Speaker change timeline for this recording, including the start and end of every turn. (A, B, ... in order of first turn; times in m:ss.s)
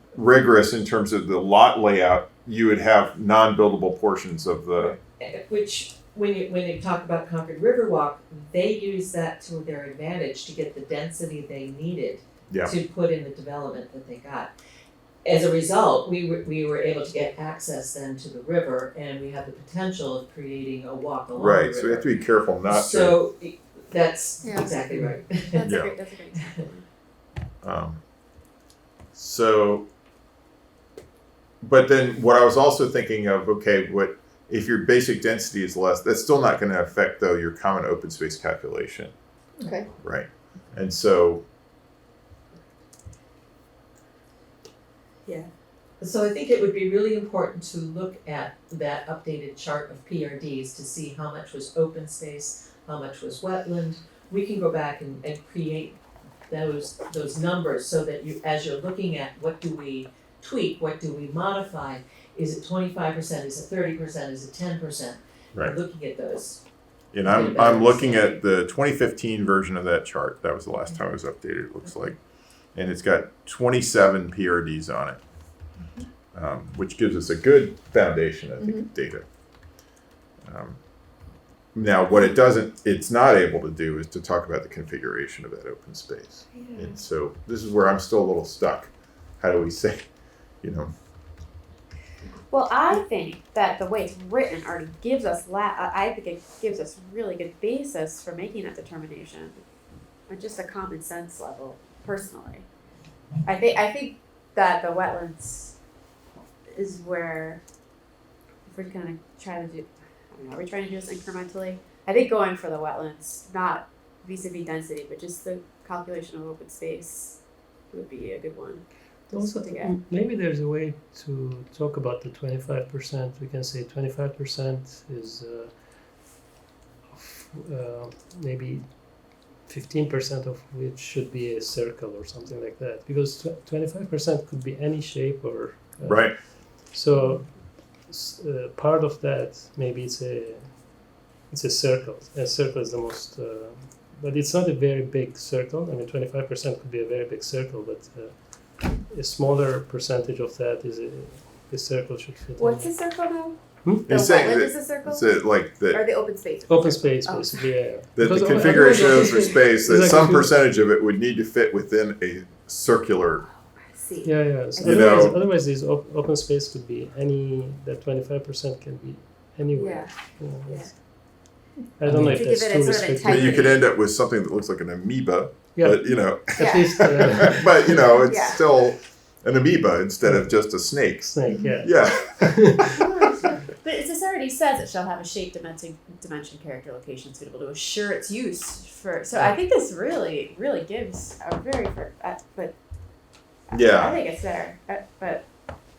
0:00.1-0:04.9 A
0:04.8-0:14.5 B
0:15.2-0:22.1 B
0:21.4-0:23.2 A
0:22.6-0:25.7 B
0:24.4-0:24.7 C
0:25.5-0:26.8 C
0:25.6-0:25.9 A
0:26.2-0:26.7 B
0:27.6-0:28.0 A
0:29.1-0:29.9 A
0:31.6-0:39.1 A
0:40.0-0:41.4 A
0:46.0-1:06.6 B
1:07.1-1:15.2 A
1:07.2-1:08.4 B
1:16.3-1:19.2 A
1:20.4-1:20.8 A
1:21.7-1:30.9 A
1:26.6-1:26.9 C
1:32.5-1:39.6 C
1:40.3-1:42.6 C
1:43.4-1:45.7 C
1:46.7-1:47.6 C
1:48.7-1:59.9 C
1:59.3-2:06.4 D
2:07.1-2:32.9 D
2:16.0-2:16.4 A
2:32.6-2:35.2 C
2:34.1-2:36.0 A
2:35.9-2:37.7 C
2:36.7-2:40.6 D
2:38.1-2:43.4 A
2:43.4-2:45.3 C
2:44.2-2:53.7 D
2:44.8-2:45.4 A
2:49.8-2:50.9 C
2:52.2-2:53.8 C
2:53.0-3:02.9 A
2:55.8-2:57.7 D
2:56.6-2:56.9 C
2:58.2-2:58.6 C
3:00.2-3:03.0 D
3:03.0-3:12.8 C
3:13.7-3:15.5 C
3:13.7-3:14.2 A